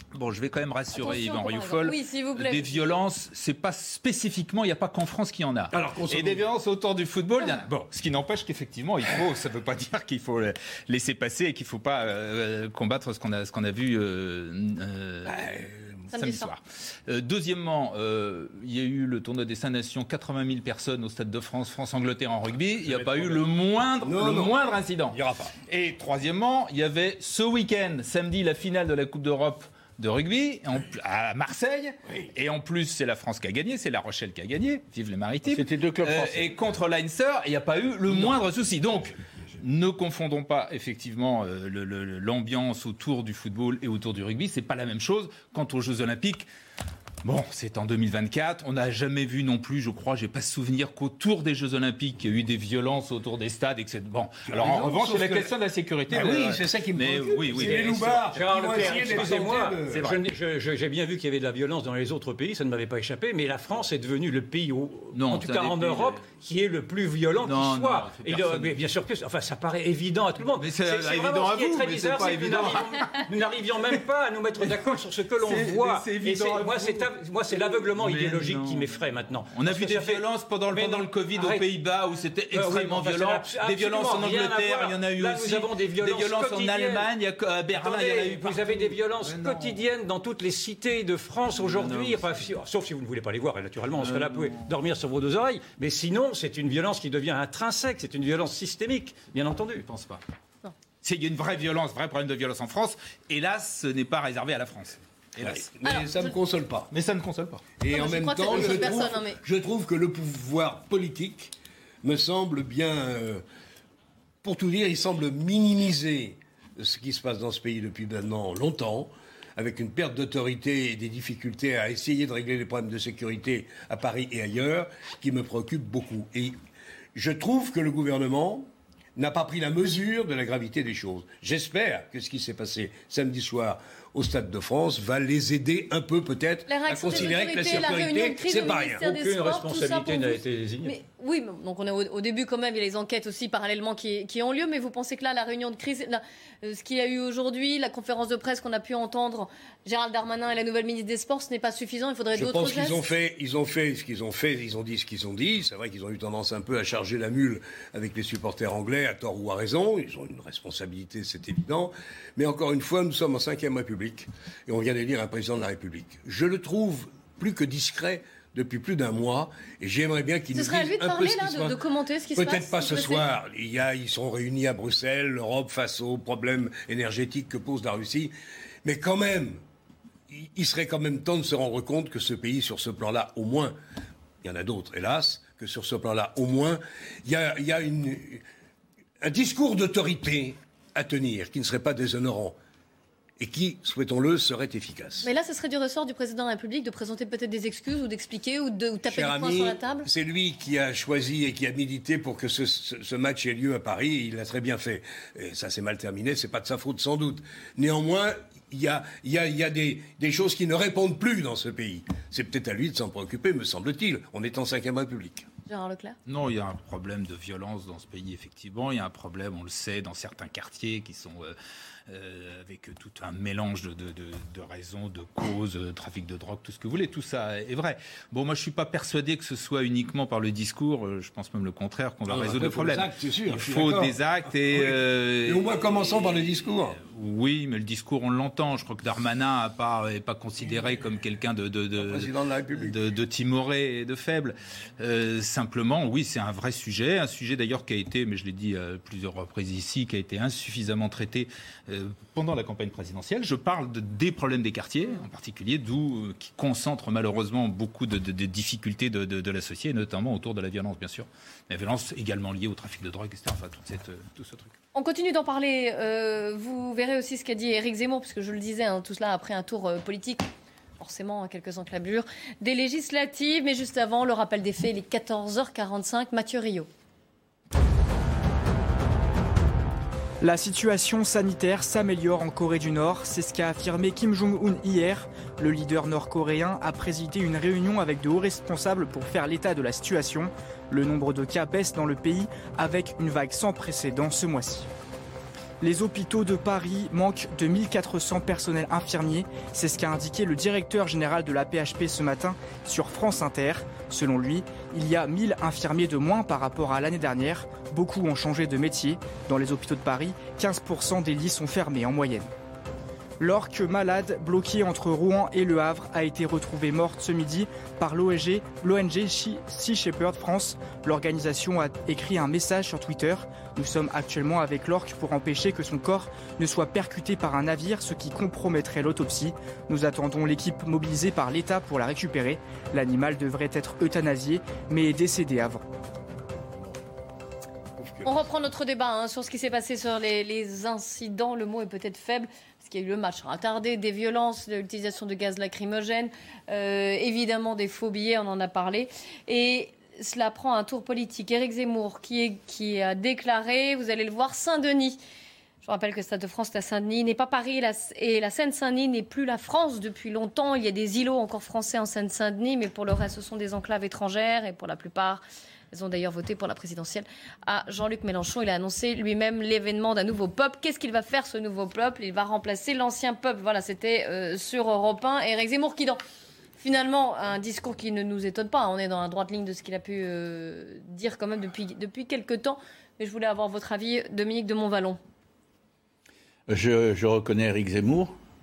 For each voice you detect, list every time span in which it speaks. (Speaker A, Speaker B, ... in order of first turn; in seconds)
Speaker A: 0.1-15.5, 16.1-46.5, 47.2-59.3, 65.1-66.2, 67.4-68.8, 70.5-73.2, 75.4-89.8, 91.5-92.6, 94.0-94.7, 99.8-100.2, 101.0-105.7, 106.9-107.6, 216.3-221.6, 222.1-264.7
Speaker B: 0.9-3.0, 16.1-16.5, 105.8-106.3, 107.9-109.4, 136.7-153.1, 170.5-173.3, 195.2-200.1, 215.7-216.2, 264.9-270.5, 271.0-276.9, 338.2-355.2, 355.8-376.2, 376.8-385.2
Speaker C: 5.7-6.5, 15.2-16.1, 22.8-23.5, 24.0-25.5, 38.1-38.4, 54.5-55.5, 56.1-60.2, 105.4-106.9, 107.8-111.5, 112.0-113.4, 114.4-126.5, 127.1-139.1, 152.3-171.8, 172.3-178.3, 178.8-179.6, 180.3-183.8, 184.4-188.4, 189.2-192.6, 193.4-195.3, 199.0-215.5, 232.3-237.0, 242.0-243.0, 338.0-338.5
Speaker D: 35.5-36.6, 386.7-388.4
Speaker E: 57.5-81.7, 82.5-87.1, 87.7-99.9, 138.9-140.9
Speaker F: 280.4-294.9, 295.8-312.5, 313.4-335.8